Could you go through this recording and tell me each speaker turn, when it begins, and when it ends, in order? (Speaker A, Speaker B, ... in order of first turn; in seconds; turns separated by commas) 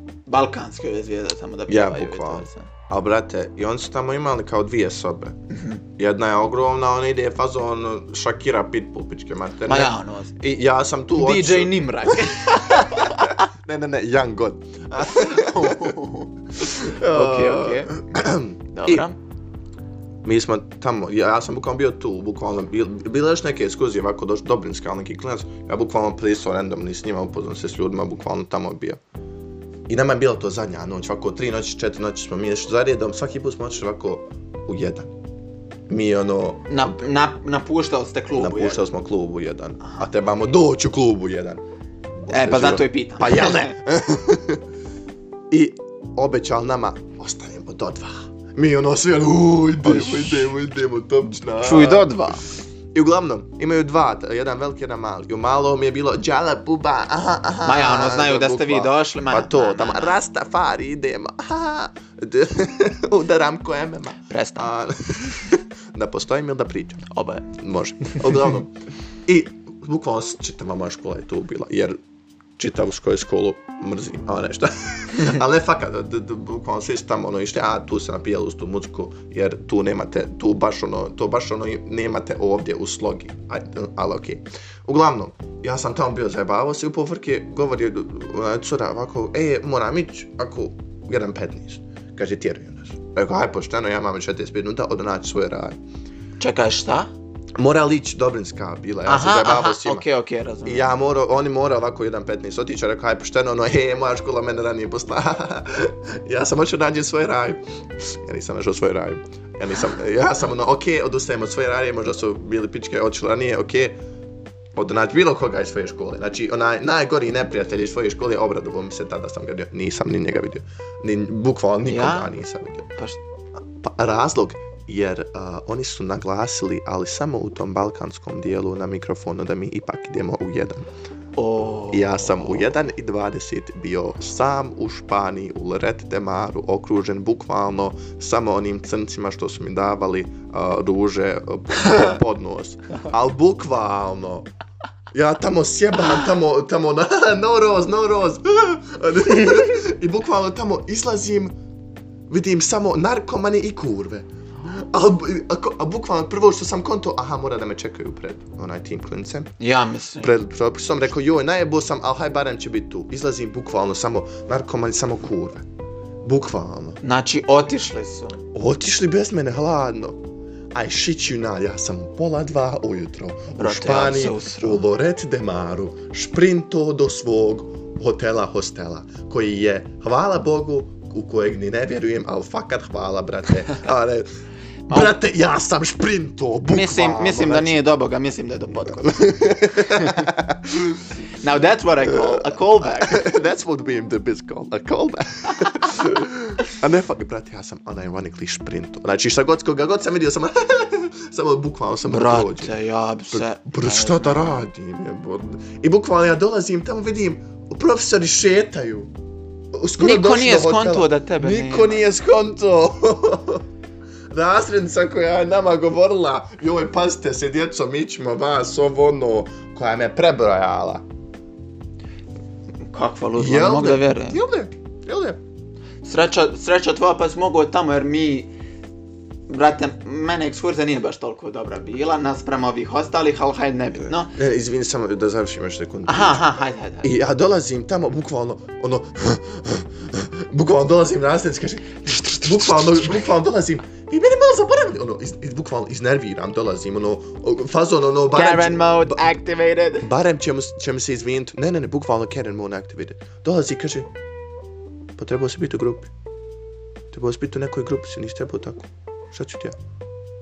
Speaker A: 0.3-2.7, Speaker B: 1.7-5.4, Speaker A: 5.5-5.8, Speaker B: 6.0-15.9, Speaker A: 9.7-10.3, Speaker A: 11.2-13.4, Speaker A: 15.0-17.9, Speaker B: 16.6-19.1, Speaker A: 18.7-19.2, Speaker B: 20.2-29.0, Speaker B: 29.9-35.1, Speaker B: 35.9-36.6, Speaker A: 36.7-38.8, Speaker B: 38.4-41.6, Speaker A: 39.8-40.1, Speaker B: 42.2-44.6, Speaker A: 42.3-43.8, Speaker B: 45.5-52.1, Speaker A: 49.8-50.5, Speaker A: 51.6-52.4, Speaker B: 52.9-68.7, Speaker A: 57.6-60.2, Speaker A: 64.3-64.7, Speaker A: 67.1-67.5, Speaker A: 68.0-68.5, Speaker B: 69.2-72.0, Speaker B: 72.6-95.8, Speaker A: 96.4-97.1, Speaker B: 97.6-100.0, Speaker A: 99.0-100.9, Speaker B: 100.6-114.0, Speaker B: 114.8-122.9, Speaker A: 121.8-122.3, Speaker B: 123.8-130.9, Speaker A: 131.3-132.7, Speaker B: 131.9-144.5, Speaker B: 145.1-151.5, Speaker B: 152.3-159.5, Speaker A: 159.6-160.3, Speaker B: 160.2-165.6, Speaker B: 166.2-167.0, Speaker A: 167.0-168.4, Speaker B: 168.5-170.2, Speaker B: 170.7-184.3, Speaker A: 173.6-174.8, Speaker A: 184.9-185.1, Speaker B: 184.9-187.8, Speaker A: 186.7-189.1, Speaker B: 188.7-191.1, Speaker A: 189.8-190.3, Speaker A: 191.4-193.3, Speaker B: 192.1-202.7, Speaker A: 202.1-204.6, Speaker B: 203.3-209.1, Speaker B: 209.7-213.6, Speaker A: 210.0-212.1, Speaker B: 214.3-221.0, Speaker A: 222.9-224.4, Speaker B: 223.4-225.4, Speaker A: 226.0-228.5, Speaker A: 229.5-234.3, Speaker B: 234.1-236.4, Speaker A: 236.1-237.1, Speaker B: 237.0-249.2, Speaker A: 242.2-243.0, Speaker A: 248.3-250.1, Speaker B: 250.0-254.1, Speaker B: 255.2-256.1, Speaker B: 257.1-259.8